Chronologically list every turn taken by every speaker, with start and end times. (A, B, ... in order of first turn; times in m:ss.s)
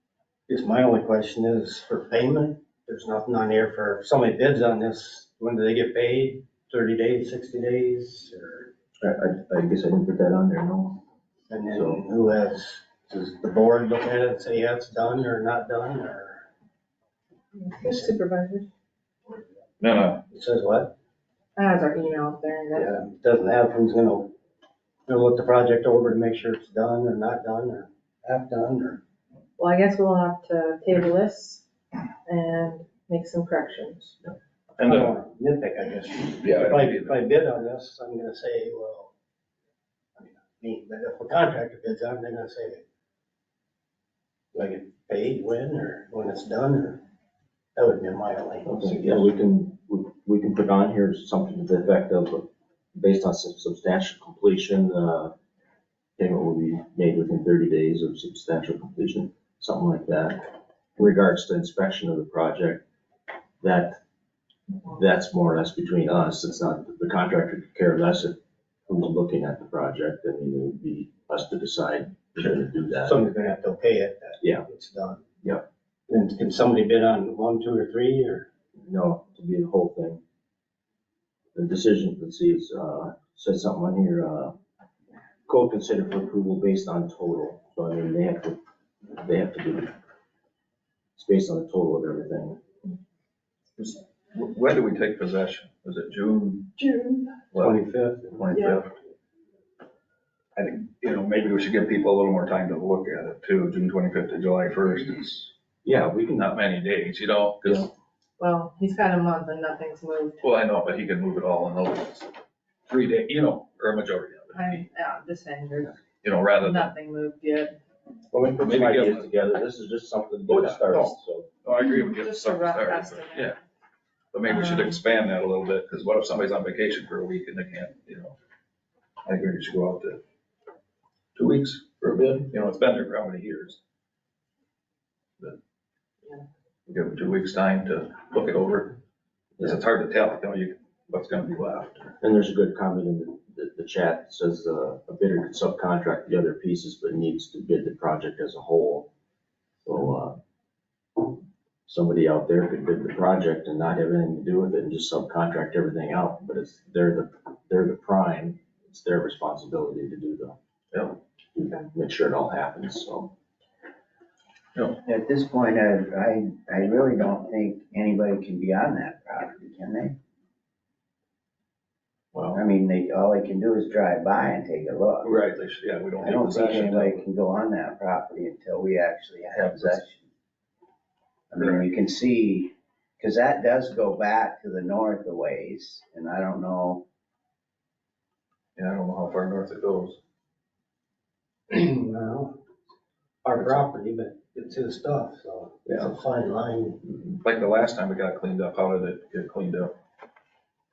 0:00.5-0:08.7 A
0:09.0-0:11.0 B
0:11.5-0:16.5 A
0:11.7-0:12.0 B
0:17.6-0:18.6 C
0:17.8-0:18.1 A
0:19.8-0:20.2 D
0:20.3-0:20.9 A
0:21.6-0:23.0 C
0:22.7-0:24.3 A
0:25.1-0:29.0 A
0:29.6-0:31.6 C
0:32.2-0:34.1 C
0:34.8-0:35.1 D
0:34.8-0:39.1 A
0:36.4-0:37.2 D
0:40.2-0:42.8 A
0:44.5-0:47.0 A
0:47.8-0:49.3 A
0:48.6-0:55.3 B
0:56.2-1:02.8 B
1:03.6-1:04.0 B
1:04.8-1:13.2 B
1:12.9-1:15.2 A
1:14.4-1:14.6 B
1:16.1-1:18.5 A
1:18.8-1:20.2 B
1:21.5-1:24.5 B
1:25.5-1:29.9 B
1:31.2-1:32.6 B
1:33.8-1:36.8 D
1:36.8-1:37.3 C
1:37.6-1:38.5 A
1:38.4-1:38.8 D
1:38.5-1:38.8 C
1:40.6-1:45.5 D
1:45.8-1:46.6 B
1:46.3-1:47.9 D
1:48.4-1:50.4 C
1:50.4-1:52.3 D
1:52.9-1:54.8 D
1:54.5-1:56.0 C
1:56.2-1:57.0 D
1:56.6-1:57.8 C
1:58.3-2:01.5 B
1:58.6-1:59.3 D
2:00.5-2:03.5 D
2:01.7-2:03.6 C
2:04.3-2:08.3 D
2:04.4-2:05.0 C
2:09.2-2:10.2 D
2:11.3-2:13.8 D
2:16.9-2:19.0 D
2:19.6-2:22.1 D
2:22.2-2:29.1 B
2:29.8-2:30.4 B
2:31.9-2:40.6 B
2:41.6-2:43.3 B
2:44.7-2:45.0 D
2:45.0-2:50.2 E
2:52.3-2:52.6 D
2:52.5-2:55.4 E
2:55.2-2:57.3 D
2:56.2-3:00.3 E
2:59.5-3:00.0 D
3:01.5-3:07.0 E
3:01.6-3:01.8 D
3:08.8-3:10.2 D
3:11.7-3:12.6 A
3:13.4-3:17.0 A
3:13.6-3:13.8 D
3:17.4-3:19.9 D